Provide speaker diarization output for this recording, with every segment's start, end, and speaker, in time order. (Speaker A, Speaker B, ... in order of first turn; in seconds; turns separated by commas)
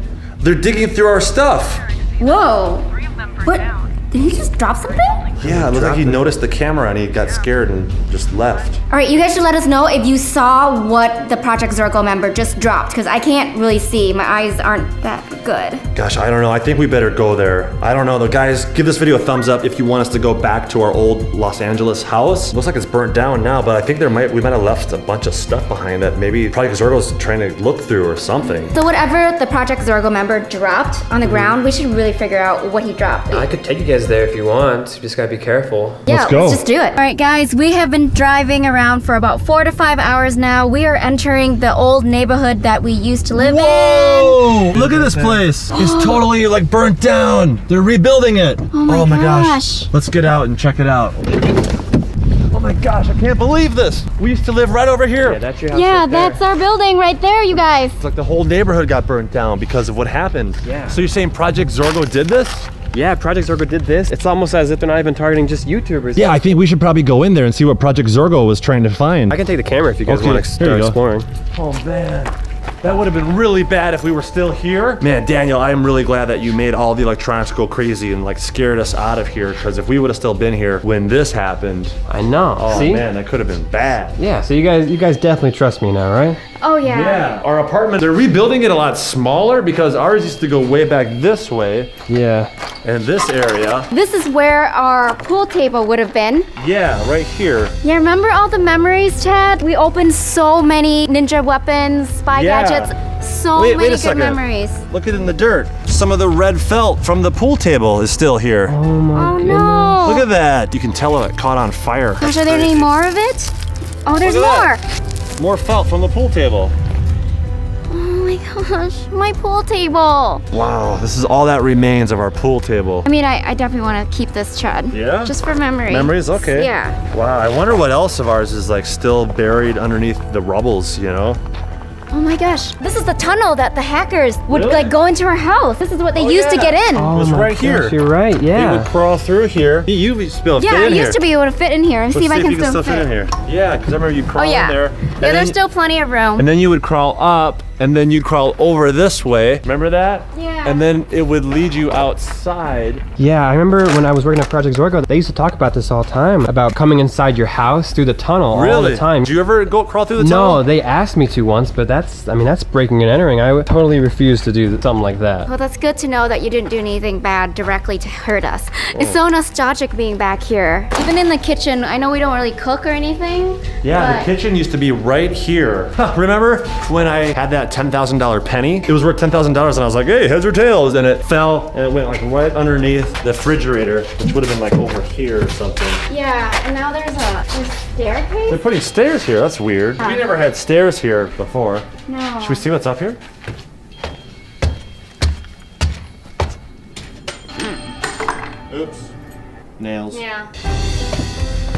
Speaker A: 0.4-1.8, Speaker B: 1.7-5.4, Speaker C: 2.2-2.9, Speaker C: 3.4-5.2, Speaker A: 5.4-8.8, Speaker D: 5.4-6.2, Speaker B: 7.1-9.4, Speaker C: 8.9-15.8, Speaker A: 15.9-28.8, Speaker C: 28.7-33.4, Speaker D: 31.2-31.6, Speaker D: 33.3-36.0, Speaker A: 36.1-36.6, Speaker C: 36.1-44.5, Speaker A: 43.3-51.4, Speaker D: 44.7-45.4, Speaker C: 45.7-46.2, Speaker C: 48.7-49.9, Speaker A: 52.5-55.4, Speaker D: 55.2-56.4, Speaker C: 55.7-58.0, Speaker A: 58.0-62.7, Speaker D: 60.6-61.0, Speaker D: 62.9-66.4, Speaker A: 66.1-69.4, Speaker D: 69.3-71.3, Speaker A: 70.0-71.0, Speaker A: 71.5-82.0, Speaker D: 82.1-83.1, Speaker A: 82.6-84.2, Speaker D: 84.2-86.4, Speaker C: 86.6-87.3, Speaker A: 86.8-91.9, Speaker D: 92.1-92.5, Speaker A: 92.8-93.9, Speaker C: 93.9-96.5, Speaker A: 96.5-97.8, Speaker C: 97.8-104.8, Speaker A: 102.3-103.0, Speaker A: 103.5-108.8, Speaker D: 108.7-110.0, Speaker C: 109.1-110.2, Speaker A: 110.0-113.0, Speaker C: 112.2-113.5, Speaker C: 114.0-114.8, Speaker A: 114.2-114.7, Speaker A: 115.3-116.7, Speaker C: 117.9-120.4, Speaker A: 120.5-123.0, Speaker C: 123.0-127.0, Speaker A: 124.9-125.3, Speaker A: 125.9-131.4, Speaker C: 132.1-137.1, Speaker A: 134.5-134.9, Speaker A: 136.1-138.0, Speaker D: 136.9-138.9, Speaker A: 138.5-141.2, Speaker C: 140.6-143.1, Speaker A: 142.1-145.6, Speaker C: 144.3-146.5, Speaker A: 146.4-153.0, Speaker C: 150.3-150.8, Speaker D: 153.2-159.3, Speaker A: 158.5-160.6, Speaker D: 160.2-165.5, Speaker C: 165.4-174.3, Speaker A: 168.9-169.2, Speaker A: 173.8-186.0, Speaker C: 186.1-188.6, Speaker A: 188.5-191.9, Speaker C: 190.0-190.3, Speaker C: 192.1-192.7, Speaker A: 192.4-193.2, Speaker A: 198.7-199.1, Speaker A: 199.8-200.2, Speaker C: 200.1-200.5